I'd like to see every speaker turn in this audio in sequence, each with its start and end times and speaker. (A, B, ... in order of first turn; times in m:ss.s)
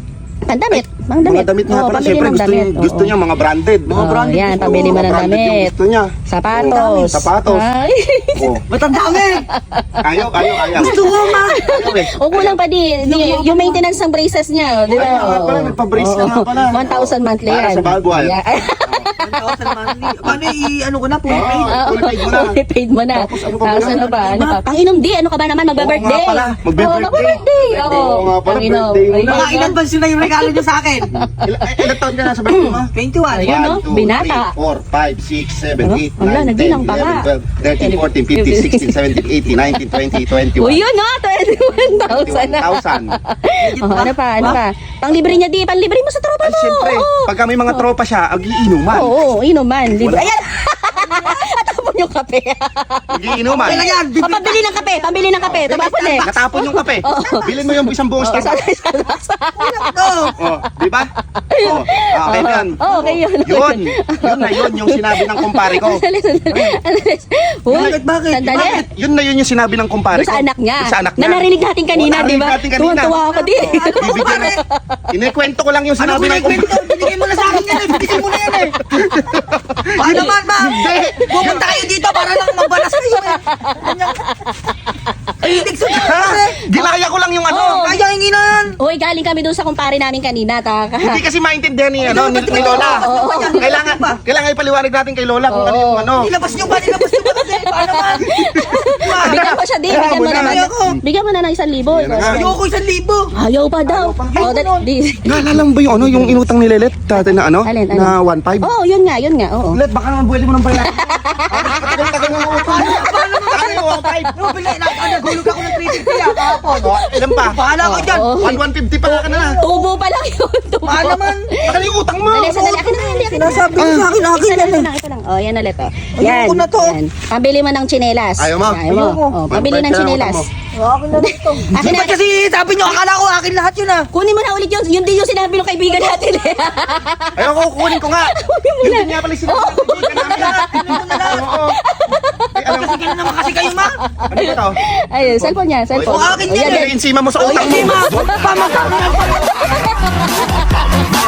0:00.5-0:03.1 A
0:00.7-0:07.7 B
0:03.9-0:05.2 C
0:04.0-0:05.7 A
0:06.3-0:08.6 A
0:06.6-0:07.3 C
0:08.4-0:08.6 B
0:08.7-0:09.5 C
0:09.5-0:19.4 A
0:10.0-0:12.6 B
0:10.7-0:11.8 C
0:13.0-0:13.8 C
0:14.9-0:15.5 C
0:14.9-0:19.1 B
0:19.2-0:21.8 C
0:21.3-0:22.5 B
0:21.3-0:29.8 A
0:23.1-0:24.4 B
0:23.9-0:24.6 C
0:25.8-0:29.5 B
0:27.7-0:28.2 C
0:29.2-0:31.1 C
0:31.1-0:40.8 B
0:31.1-0:31.9 A
0:32.5-0:32.8 A
0:32.5-0:33.8 C
0:33.3-0:34.5 A
0:35.8-0:37.3 A
0:37.8-0:39.2 A
0:39.8-0:47.8 A
0:41.9-0:43.2 B
0:43.6-0:44.6 C
0:46.4-0:49.2 B
0:48.9-0:56.5 A
0:49.9-0:50.3 B
0:50.1-0:51.4 C
0:53.1-0:53.9 B
0:53.5-0:57.2 C
0:55.4-0:58.6 B
0:57.0-0:59.9 A
0:59.6-1:00.4 C
1:00.4-1:06.8 B
1:01.5-1:08.8 A
1:07.7-1:08.8 C
1:07.7-1:14.6 B
1:10.1-1:15.0 A
1:13.1-1:14.6 C
1:15.1-1:21.8 B
1:16.0-1:18.8 C
1:19.9-1:24.3 C
1:22.3-1:24.5 A
1:25.4-1:26.7 C
1:25.9-1:27.8 B
1:27.5-1:28.0 A
1:27.5-1:28.8 C
1:28.8-1:31.2 A
1:31.0-1:36.4 B
1:32.0-1:34.2 C
1:32.1-1:33.7 A
1:35.5-1:42.6 A
1:36.2-1:41.0 C
1:39.2-1:40.9 B
1:41.9-1:42.5 B
1:42.2-1:43.3 C
1:43.3-1:45.4 A
1:43.8-1:44.5 B
1:44.3-1:44.9 C
1:45.2-1:48.7 B
1:46.1-1:46.3 A
1:47.6-1:49.8 A
1:49.7-1:54.4 B
1:50.9-2:10.5 A
1:52.3-1:58.4 C
1:56.7-1:57.6 B
1:58.3-1:59.6 B
1:59.1-1:59.8 C
2:00.8-2:01.6 C
2:01.6-2:02.6 B
2:02.2-2:04.9 C
2:03.8-2:04.1 B
2:06.2-2:07.0 C
2:08.4-2:10.5 B
2:08.9-2:09.4 C
2:10.7-2:14.1 C
2:11.1-2:12.2 A
2:14.1-2:30.9 A
2:17.4-2:21.8 B
2:20.1-2:21.5 C
2:22.6-2:23.1 B
2:22.7-2:24.0 C
2:24.3-2:28.3 B
2:26.0-2:30.4 C